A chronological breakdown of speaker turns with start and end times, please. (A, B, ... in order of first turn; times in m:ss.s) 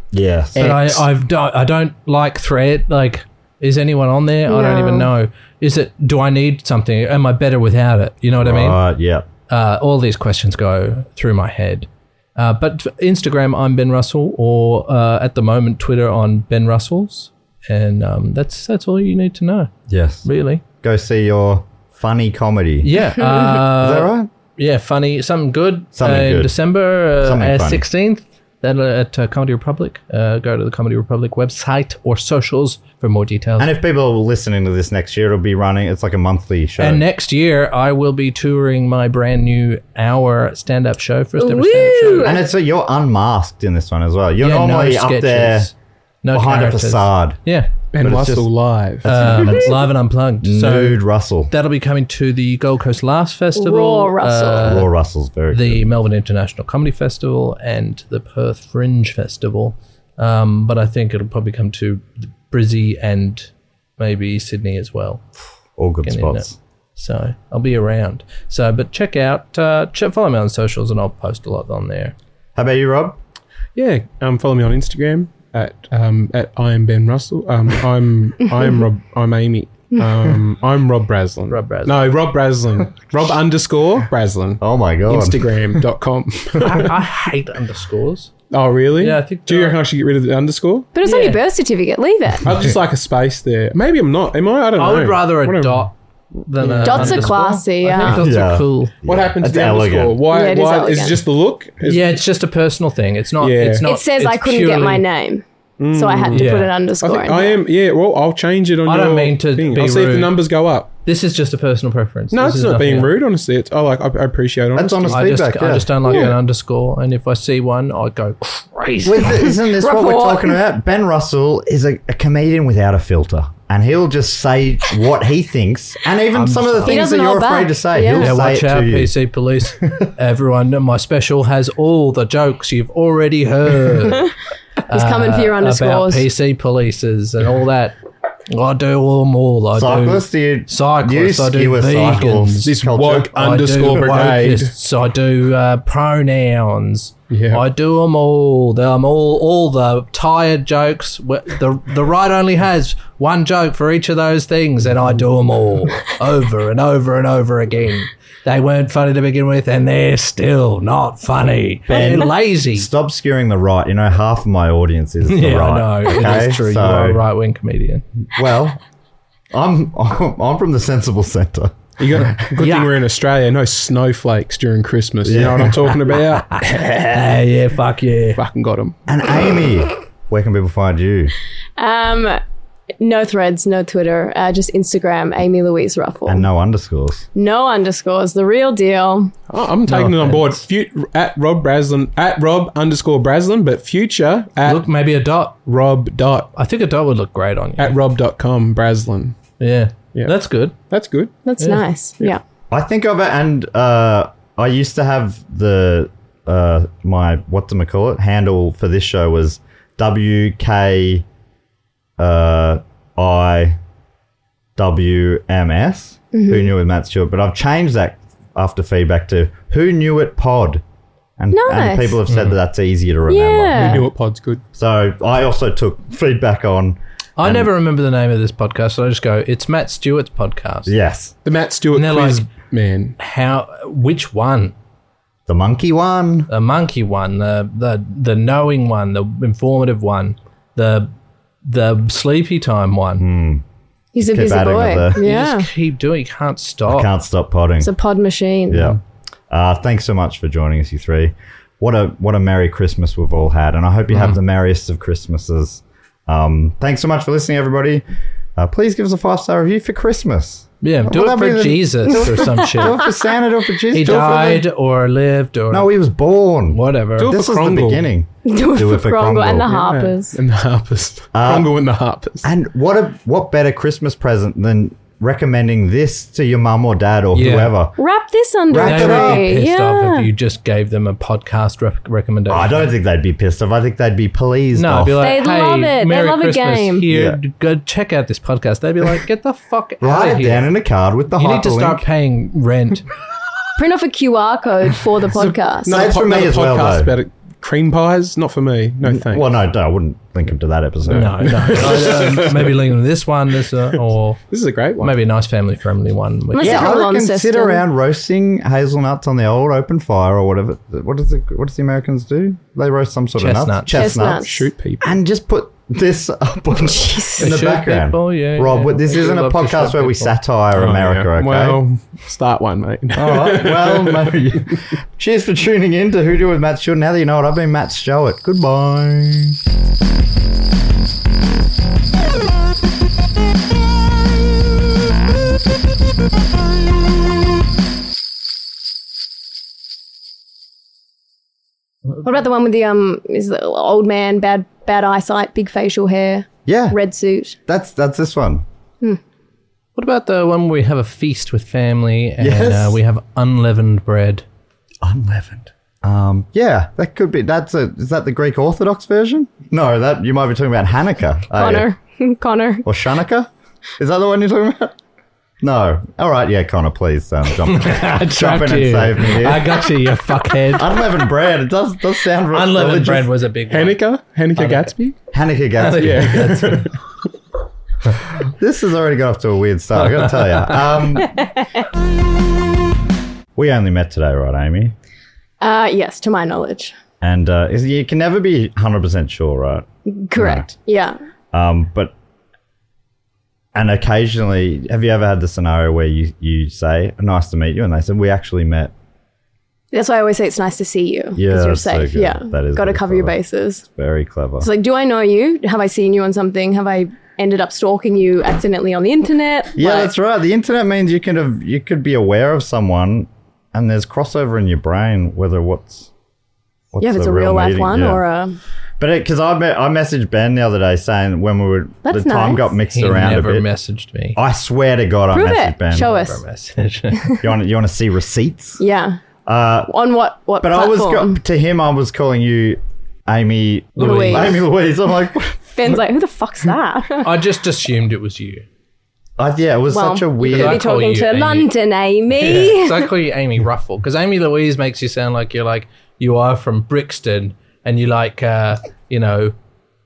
0:00.1-0:01.1 A
0:00.6-0:08.8 B
0:04.5-0:05.1 C
0:08.4-0:09.3 A
0:09.5-0:19.7 B
0:19.9-0:20.3 A
0:20.2-0:20.6 B
0:20.8-0:24.3 A
0:22.8-0:33.7 B
0:26.0-0:26.5 A
0:27.2-0:27.8 A
0:33.6-0:37.0 A
0:36.8-0:42.4 B
0:41.4-0:42.4 C
0:42.2-0:45.7 A
0:44.4-0:45.7 B
0:46.2-0:47.7 B
0:46.3-0:47.4 A
0:47.9-0:49.4 D
0:48.0-0:48.5 A
0:49.0-0:49.9 A
0:49.1-0:54.9 B
0:50.4-0:51.5 A
0:53.6-0:54.8 C
0:54.6-0:55.9 A
0:55.5-1:05.3 B
1:05.8-1:06.6 A
1:06.0-1:06.5 B
1:07.0-1:12.1 B
1:12.6-1:13.2 A
1:13.8-1:26.9 D
1:21.5-1:22.1 B
1:24.6-1:25.4 A
1:26.6-1:28.3 B
1:28.5-1:30.9 D
1:29.0-1:29.8 B
1:31.0-1:32.5 C
1:31.0-1:31.4 B
1:32.4-1:35.9 D
1:34.8-1:38.9 B
1:36.6-1:37.6 D
1:36.8-1:38.2 C
1:38.0-1:40.2 A
1:39.0-1:42.1 D
1:40.3-1:41.2 C
1:41.8-1:45.0 B
1:43.4-1:43.8 D
1:43.8-1:47.6 C
1:45.8-1:46.5 D
1:46.3-1:46.7 B
1:47.0-1:50.9 D
1:48.8-1:50.4 B
1:51.0-1:53.2 B
1:52.3-1:55.2 D
1:54.8-1:56.0 A
1:55.1-1:59.5 B
1:56.0-1:56.4 D
1:59.0-2:09.1 A
1:59.7-2:00.6 C
2:06.3-2:07.1 B
2:06.9-2:08.3 C
2:08.1-2:14.3 B
2:14.9-2:18.0 B
2:14.9-2:16.2 C
2:18.5-2:42.9 B
2:19.7-2:23.3 A
2:22.6-2:24.7 D
2:27.3-2:27.6 D
2:41.9-2:47.2 A
2:45.3-2:48.1 B
2:48.3-2:48.8 A
2:49.5-2:51.8 A
2:52.0-2:56.6 D
2:52.6-2:52.9 B
2:55.2-2:55.8 A
2:56.5-2:58.4 B
2:58.4-2:59.0 D
2:59.1-3:01.3 A
3:01.8-3:02.4 C
3:03.0-3:06.5 C
3:06.3-3:07.3 A
3:07.4-3:09.3 C
3:09.5-3:14.9 D
3:09.9-3:10.6 B
3:14.6-3:15.6 B
3:15.6-3:16.5 D
3:16.6-3:18.0 B
3:17.8-3:19.4 D
3:19.6-3:20.8 B
3:20.9-3:21.4 D
3:21.4-3:22.4 C
3:22.7-3:31.2 A
3:32.2-3:33.8 A
3:34.8-3:40.8 A
3:36.3-3:36.7 C
3:41.4-3:44.0 A
3:41.5-3:42.2 C
3:42.3-3:42.6 B
3:43.3-3:44.0 C
3:43.8-3:44.6 D
3:44.7-3:47.7 A
3:47.4-3:50.9 B
3:50.9-3:51.4 A
3:51.4-3:53.2 D
3:51.9-3:52.5 B
3:53.2-3:54.7 B
3:55.5-3:56.5 A
3:56.5-4:01.1 B
4:01.6-4:03.2 B
4:03.2-4:03.6 A
4:04.2-4:05.7 C
4:04.2-4:05.4 A
4:05.2-4:07.1 B
4:06.9-4:07.9 A
4:07.8-4:08.9 C
4:08.7-4:09.0 A
4:09.5-4:18.0 A
4:14.1-4:14.4 B
4:18.6-4:24.6 A
4:20.8-4:23.0 B
4:23.9-4:25.9 B
4:25.7-4:29.8 A
4:26.7-4:27.4 B
4:27.2-4:28.1 D
4:28.4-4:30.4 C
4:29.7-4:32.5 D
4:31.3-4:31.7 A
4:32.4-4:38.0 A
4:37.3-4:37.8 B
4:38.0-4:40.3 C
4:38.7-4:39.5 A
4:38.8-4:42.9 B
4:42.5-4:45.2 A
4:44.7-4:50.7 B
4:45.2-4:47.0 C
4:47.1-4:47.4 A
4:50.0-4:52.1 A
4:51.4-4:53.0 B
4:53.8-4:56.0 C
4:55.8-4:57.1 A
4:55.8-4:59.5 D
4:59.0-5:02.2 A
5:01.1-5:02.8 D
5:01.1-5:06.9 B
5:04.5-5:05.2 D
5:06.5-5:07.8 C
5:06.6-5:21.8 A
5:13.4-5:14.1 B
5:13.9-5:14.6 C
5:14.4-5:15.2 D
5:16.9-5:17.5 C
5:17.4-5:20.4 B
5:20.7-5:24.4 D
5:23.1-5:29.6 A
5:42.2-5:47.6 C
5:46.7-5:47.0 A
5:47.7-5:48.6 A
5:50.0-5:54.4 B
5:52.4-5:53.0 A
5:55.0-6:01.9 A
6:01.6-6:02.8 C
6:02.8-6:05.0 A
6:05.6-6:09.9 A
6:07.7-6:10.9 B
6:10.7-6:13.3 A
6:12.5-6:14.0 B
6:13.7-6:15.2 D
6:14.6-6:14.9 B
6:15.3-6:16.9 A
6:15.8-6:16.9 B
6:16.0-6:16.9 D
6:18.5-6:21.4 A
6:20.1-6:20.8 B
6:21.2-6:21.6 C
6:23.6-6:25.0 A
6:25.6-6:27.0 C
6:27.2-6:30.7 A
6:30.1-6:31.2 C
6:31.5-6:32.1 A
6:33.8-6:38.9 A
6:39.9-6:43.8 C
6:41.4-6:43.4 A
6:43.9-6:44.7 A
6:44.6-6:50.1 C
6:49.8-6:56.1 A
6:56.9-6:58.2 A
6:57.0-6:58.6 C
6:59.0-7:03.7 A
7:02.0-7:02.8 C
7:02.9-7:04.4 B
7:04.4-7:06.1 A
7:05.3-7:06.4 C
7:05.9-7:07.4 B
7:07.4-7:08.8 A
7:08.8-7:09.2 C
7:09.5-7:09.9 A
7:09.9-7:11.4 C
7:10.6-7:15.7 A
7:14.0-7:14.6 B
7:14.0-7:14.6 C
7:15.7-7:17.3 C
7:17.2-7:18.6 B
7:19.4-7:20.8 A
7:19.9-7:23.1 C
7:20.4-7:21.7 B
7:22.4-7:29.6 B